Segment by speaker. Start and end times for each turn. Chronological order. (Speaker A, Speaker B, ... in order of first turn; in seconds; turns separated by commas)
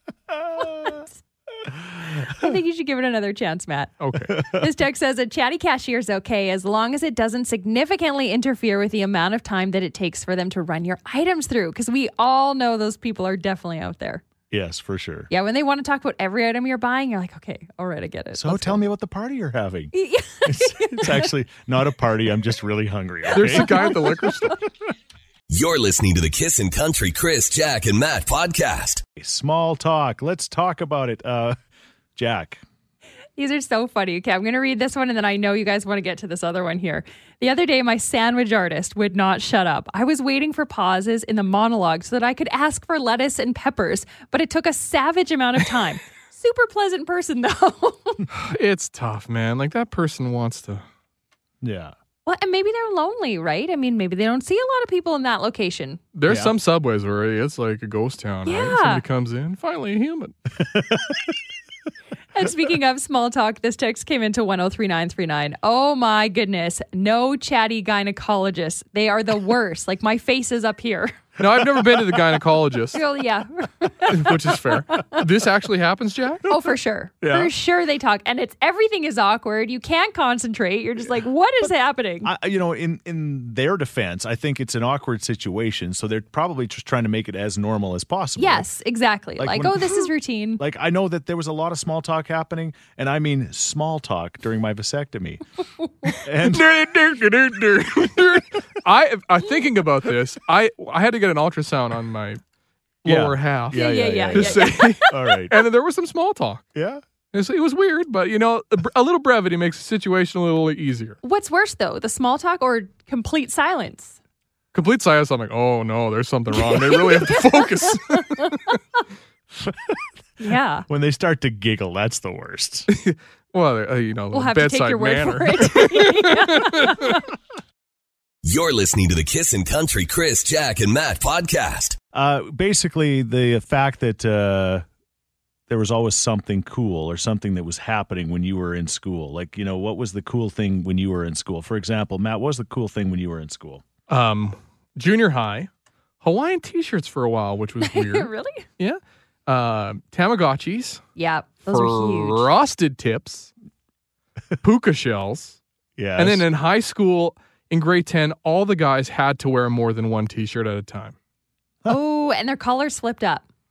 Speaker A: 0.4-1.0, Speaker B: 2.3-3.9, Speaker C: 4.0-4.3, Speaker A: 4.3-4.7, Speaker B: 4.5-14.2, Speaker A: 14.5-15.3, Speaker B: 15.3-18.8, Speaker A: 18.3-24.1, Speaker B: 19.9-21.3, Speaker C: 23.3-24.6, Speaker D: 25.5-29.0, Speaker A: 29.1-31.6, Speaker A: 32.1-32.6, Speaker B: 33.4-48.2, Speaker C: 48.3-50.8, Speaker A: 51.6-51.9, Speaker B: 52.2-56.0, Speaker C: 56.1-60.3, Speaker A: 56.3-56.5, Speaker B: 58.5-59.0, Speaker A: 60.6-61.3, Speaker B: 62.3-71.2, Speaker C: 71.4-73.0, Speaker A: 71.4-72.4, Speaker B: 72.9-75.2, Speaker C: 74.1-76.4, Speaker B: 76.5-82.3, Speaker A: 77.2-77.5, Speaker A: 82.2-88.7, Speaker B: 88.4-90.6, Speaker A: 89.4-95.4, Speaker A: 96.2-96.7, Speaker C: 96.4-102.4, Speaker C: 103.0-106.6, Speaker A: 103.0-105.5, Speaker B: 103.7-105.1, Speaker A: 106.7-107.0, Speaker C: 107.3-111.2, Speaker B: 111.2-114.2, Speaker C: 114.7-118.5, Speaker B: 116.6-118.8, Speaker B: 120.4-120.8, Speaker A: 120.9-122.9, Speaker C: 122.9-127.2, Speaker B: 124.3-127.2, Speaker D: 128.4-132.0, Speaker A: 132.1-134.8, Speaker A: 135.7-143.8, Speaker C: 144.1-145.7, Speaker C: 146.2-151.0, Speaker B: 147.8-148.6, Speaker B: 151.2-152.5, Speaker C: 151.7-153.5, Speaker C: 154.6-155.6, Speaker A: 156.0-156.4, Speaker C: 156.2-161.1, Speaker B: 161.9-163.4